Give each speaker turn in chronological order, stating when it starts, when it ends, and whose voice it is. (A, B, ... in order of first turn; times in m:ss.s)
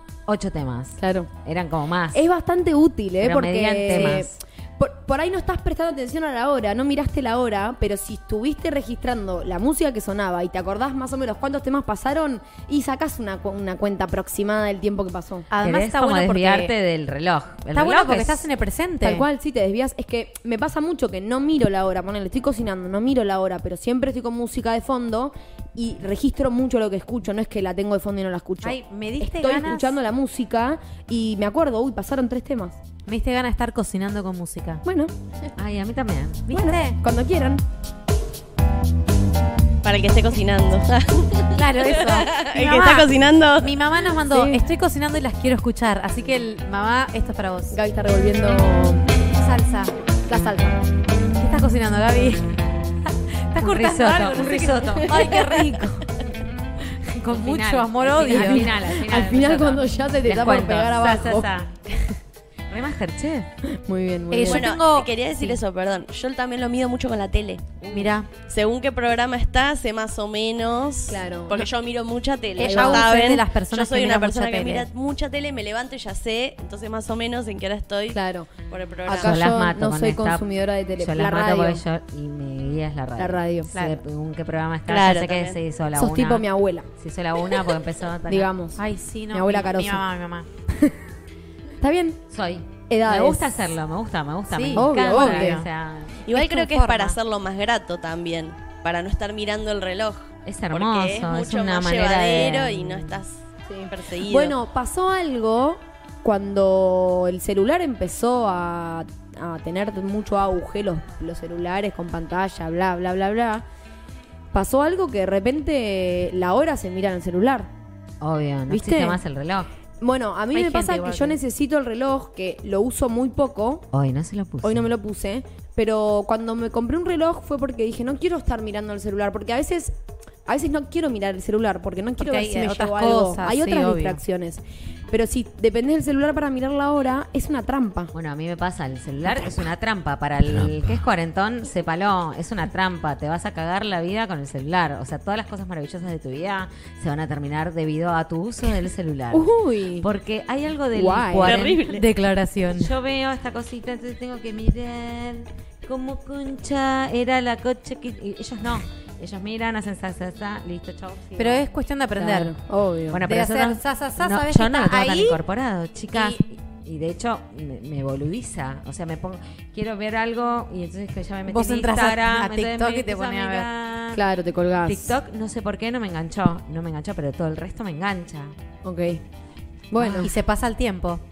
0:00.3-0:02.2 A
0:01.0-0:01.3 B
0:02.1-0:15.5 B
0:03.2-0:04.3 A
0:15.5-0:16.7 C
0:15.6-0:18.5 A
0:17.7-0:19.3 C
0:19.0-0:32.8 B
0:28.6-0:30.0 C
0:33.0-0:34.8 C
0:34.8-0:35.1 B
0:35.5-0:36.5 A
0:36.5-0:37.0 C
0:36.5-0:37.6 B
0:39.8-0:43.9 D
0:41.5-0:47.8 C
0:44.3-0:44.6 B
0:47.7-0:49.2 B
0:49.3-0:49.9 C
0:50.3-0:50.8 B
0:51.4-0:52.5 C
0:53.1-0:56.1 C
0:53.6-0:55.4 A
0:57.0-1:01.9 A
0:57.2-0:58.7 C
0:58.3-1:01.5 B
1:02.7-1:03.5 A
1:03.6-1:04.7 B
1:04.3-1:05.6 C
1:04.4-1:07.8 D
1:07.9-1:08.3 C
1:08.4-1:19.4 D
1:11.1-1:11.7 B
1:12.6-1:13.4 B
1:12.6-1:14.9 C
1:18.1-1:18.5 B
1:19.0-1:21.8 B
1:19.1-1:28.5 A
1:23.2-1:23.7 B
1:23.7-1:24.0 C
1:24.9-1:25.6 D
1:25.9-1:26.9 B
1:28.3-1:28.8 B
1:28.8-1:30.5 C
1:29.3-1:30.0 B
1:31.8-1:32.2 B
1:32.3-1:36.2 A
1:32.9-1:33.6 B
1:34.5-1:35.7 C
1:34.7-1:35.6 B
1:36.2-1:44.5 D
1:36.3-1:37.2 C
1:40.4-1:43.2 A
1:43.7-1:53.6 B
1:54.5-1:57.7 B
1:58.2-1:59.7 A
1:58.7-1:59.2 B
2:00.0-2:03.8 B
2:00.5-2:01.4 C
2:03.9-2:04.8 A
2:04.6-2:09.9 B
2:10.4-2:18.1 B
2:12.2-2:14.2 C
2:18.1-2:32.0 A
2:29.3-2:30.1 B
2:30.9-2:31.6 B
2:31.4-2:32.0 D
2:31.9-2:32.9 C
2:32.7-2:41.6 A
2:41.4-2:42.5 C
2:42.2-2:43.2 B
2:43.1-2:54.2 A
2:43.3-2:45.4 C
2:46.1-2:46.4 C
2:51.5-2:53.7 C
2:54.1-2:55.1 B
2:54.8-2:58.5 A
2:58.8-2:59.2 B
2:59.9-3:00.3 B
3:00.1-3:01.2 C